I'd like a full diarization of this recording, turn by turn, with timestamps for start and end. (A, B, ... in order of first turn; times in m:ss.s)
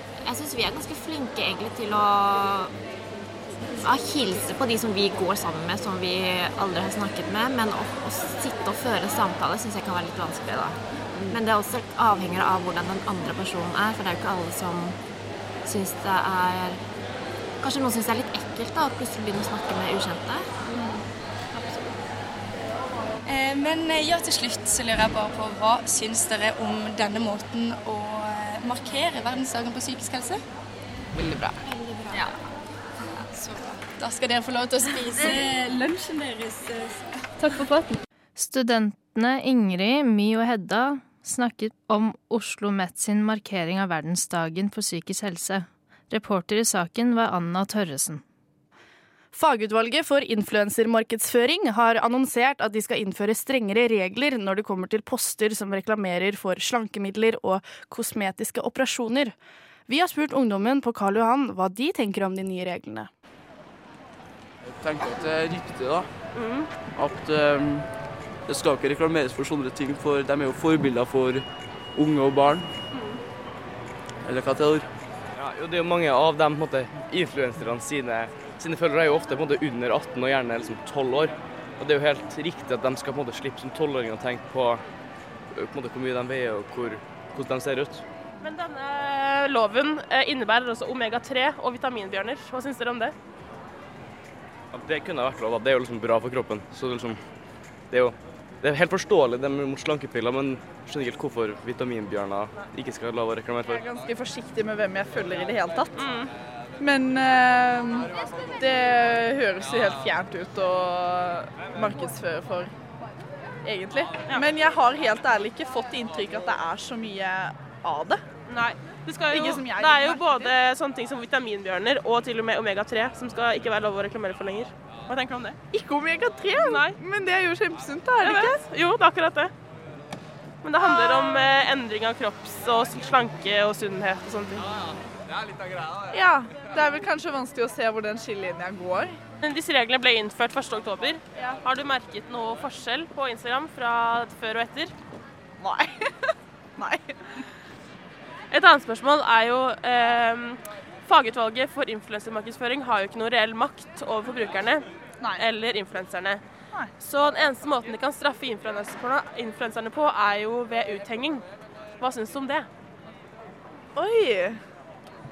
0:00.2-0:02.7 A
0:03.8-0:15.0 A
0:15.6-0:16.8 A
0:17.6-0:20.5 A
0:23.2-0:30.4 B
0:31.1-0:31.6 C
0:31.6-0:32.3 B
0:33.2-0:37.2 B
0:38.4-0:48.2 D
0:49.3-0:59.3 E
0:59.9-1:03.1 E
1:05.4-1:06.0 C
1:06.3-1:06.7 F
1:07.0-1:07.3 C
1:09.4-1:11.3 C
1:12.0-1:12.6 C
1:12.9-1:13.2 F
1:14.3-1:14.8 C
1:15.3-1:24.8 G
1:25.5-1:28.0 G
1:28.4-1:33.1 F
1:34.7-1:37.2 G
1:37.9-1:43.9 G
1:43.7-1:46.1 H
1:46.0-1:46.3 F
1:46.8-1:52.7 H
1:53.6-1:58.2 H
1:58.5-2:05.6 F
1:59.3-2:00.5 H
2:05.7-2:08.6 H
2:06.6-2:07.0 F
2:08.2-2:09.5 F
2:10.6-2:14.7 F
2:10.8-2:11.4 H
2:16.1-2:19.2 H
2:19.4-2:24.9 F
2:25.6-2:26.1 H
2:26.8-2:27.1 H
2:28.5-2:34.8 F
2:35.4-2:36.4 F
2:37.0-2:41.4 F
2:42.0-2:42.7 F
2:44.0-2:44.6 H